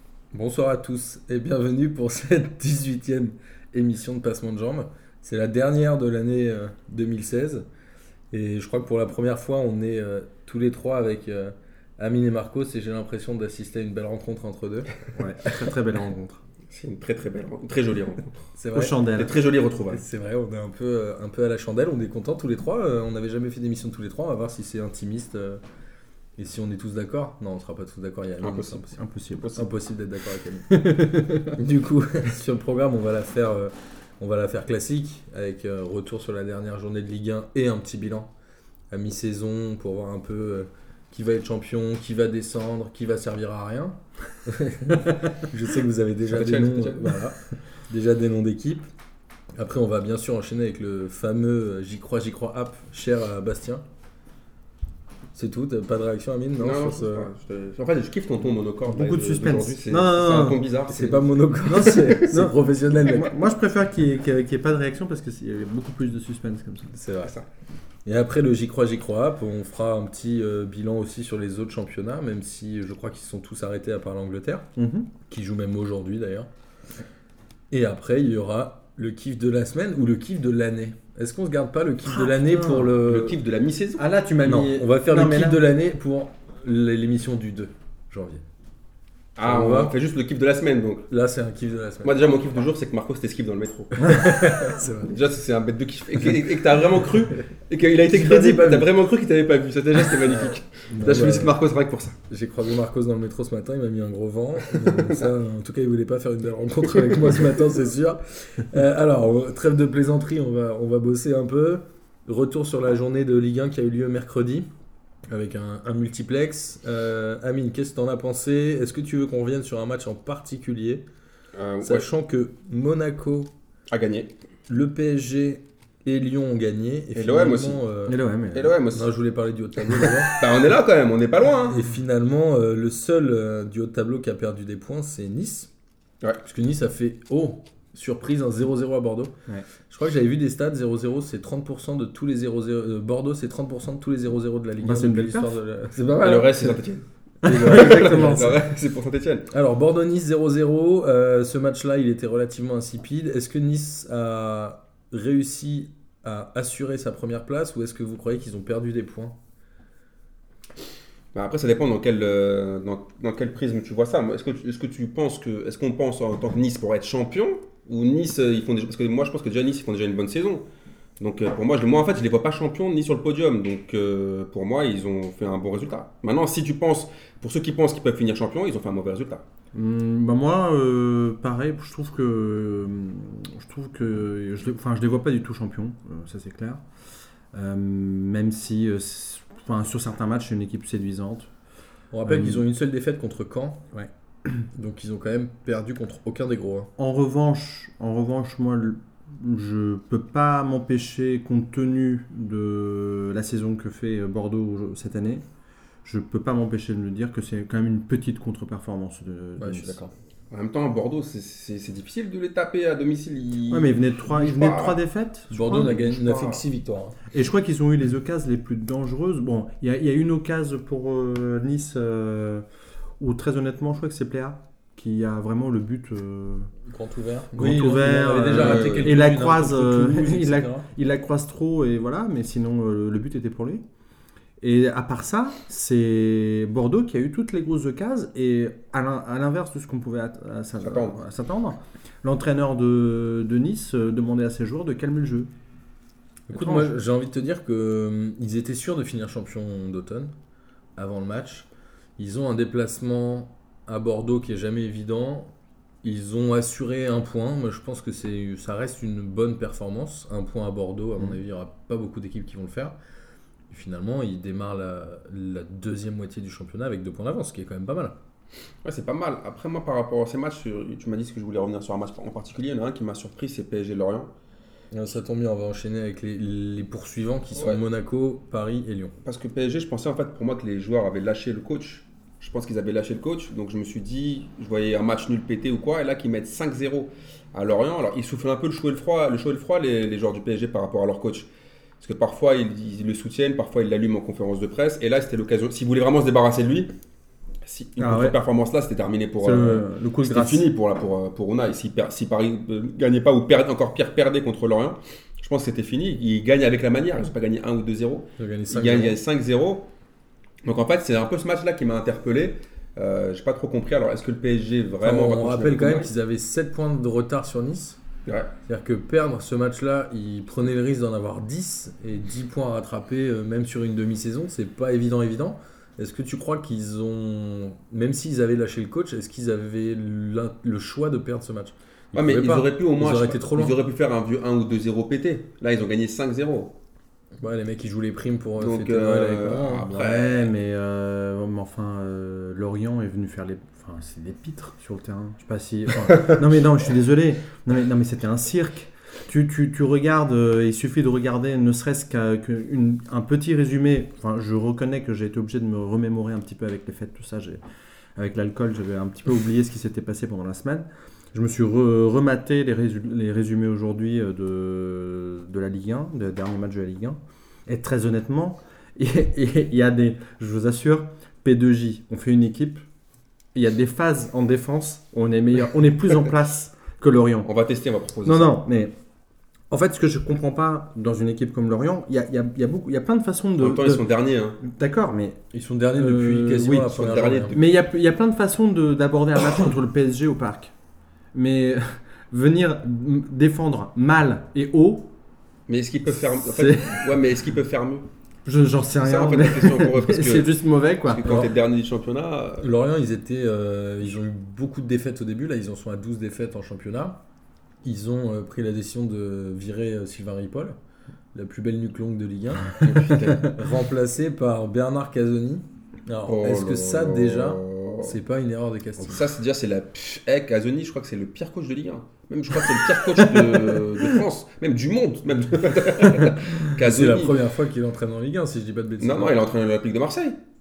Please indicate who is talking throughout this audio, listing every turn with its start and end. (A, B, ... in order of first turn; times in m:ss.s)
0:00.3-0:07.6 A
0:08.3-0:15.0 A
0:15.2-0:16.4 B
0:16.7-0:18.4 C
0:18.6-0:19.1 A
0:18.7-0:19.3 B
0:19.2-0:20.0 C
0:19.9-0:25.6 A
0:26.4-0:30.9 A
0:28.4-0:28.8 C
0:28.9-0:29.7 B
0:30.7-0:31.6 B
0:31.4-0:38.3 A
0:38.9-0:47.4 A
0:46.3-0:47.2 C
0:47.9-0:48.9 A
0:49.6-0:53.8 A
0:55.4-0:57.3 A
0:56.6-1:01.3 C
0:58.9-1:00.6 B
1:00.9-1:03.4 A
1:01.7-1:07.0 B
1:06.9-1:07.3 A
1:08.1-1:14.6 A
1:14.8-1:15.1 B
1:15.3-1:16.5 A
1:17.7-1:23.4 A
1:22.1-1:22.9 B
1:23.0-1:24.0 C
1:24.0-1:25.6 B
1:24.4-1:28.4 A
1:29.4-1:31.1 C
1:29.4-1:30.0 A
1:31.1-1:32.4 A
1:32.0-1:34.5 C
1:34.0-1:35.1 A
1:35.1-1:42.2 C
1:38.1-1:38.9 A
1:40.2-1:41.5 A
1:41.0-1:41.3 B
1:42.3-1:54.7 A
1:44.7-1:45.2 C
1:55.3-2:01.0 A
2:01.6-2:02.1 C
2:01.8-2:03.5 A
2:03.9-2:04.3 C
2:04.7-2:08.2 A
2:07.2-2:07.8 C
2:08.1-2:08.7 B
2:08.5-2:09.1 C
2:08.9-2:10.4 A
2:10.3-2:11.8 C
2:11.7-2:15.7 A
2:16.4-2:19.3 A
2:19.9-2:26.8 A
2:24.8-2:25.6 B
2:26.2-2:29.5 C
2:27.4-2:28.6 A
2:27.4-2:28.6 B
2:29.5-2:39.4 A
2:41.4-2:50.6 C
2:51.2-2:59.4 C
2:59.7-3:06.8 B
3:07.5-3:11.5 B
3:12.1-3:13.8 A
3:12.2-3:12.6 B
3:13.9-3:14.6 B
3:14.8-3:16.9 A
3:17.0-3:25.4 B
3:26.0-3:30.0 B
3:29.6-3:30.1 A
3:30.5-3:35.0 C
3:33.7-3:36.0 B
3:35.5-3:37.2 A
3:35.7-3:36.6 C
3:37.3-3:42.6 B
3:43.2-3:46.7 B
3:46.9-3:50.9 A
3:47.6-3:53.8 B
3:48.5-3:49.2 C
3:54.6-4:05.5 B
4:00.8-4:01.2 C
4:06.5-4:10.3 A
4:06.5-4:06.9 B
4:11.0-4:11.7 A
4:12.2-4:15.5 A
4:16.0-4:23.0 A
4:23.7-4:28.2 A
4:28.8-4:34.3 C
4:34.9-4:39.2 A
4:39.2-4:51.5 C
4:52.0-4:56.9 C
4:57.7-5:09.9 C
4:58.0-4:58.4 B
4:59.4-5:00.7 B
5:08.4-5:09.2 A
5:10.6-5:16.1 C
5:15.0-5:18.0 A
5:18.3-5:18.5 C
5:18.7-5:33.8 A
5:32.1-5:36.8 C
5:37.4-5:40.1 A
5:38.6-5:40.4 C
5:39.9-5:57.6 B
5:58.2-6:12.8 B
6:13.6-6:17.5 B
6:17.4-6:18.6 C
6:18.2-6:18.9 B
6:19.7-6:24.0 B
6:23.6-6:24.6 C
6:24.6-6:25.4 B
6:25.5-6:27.6 A
6:26.0-6:30.7 B
6:27.1-6:27.6 C
6:31.3-6:35.1 B
6:35.7-6:38.1 C
6:36.3-6:37.2 B
6:38.4-6:41.3 B
6:39.0-6:42.7 C
6:41.2-6:41.5 A
6:42.6-6:47.2 A
6:47.8-6:50.8 A
6:51.3-6:59.3 A
6:52.8-6:53.6 C
6:56.3-6:58.2 C
6:59.0-7:07.4 C
7:06.1-7:09.4 A
7:09.0-7:10.4 C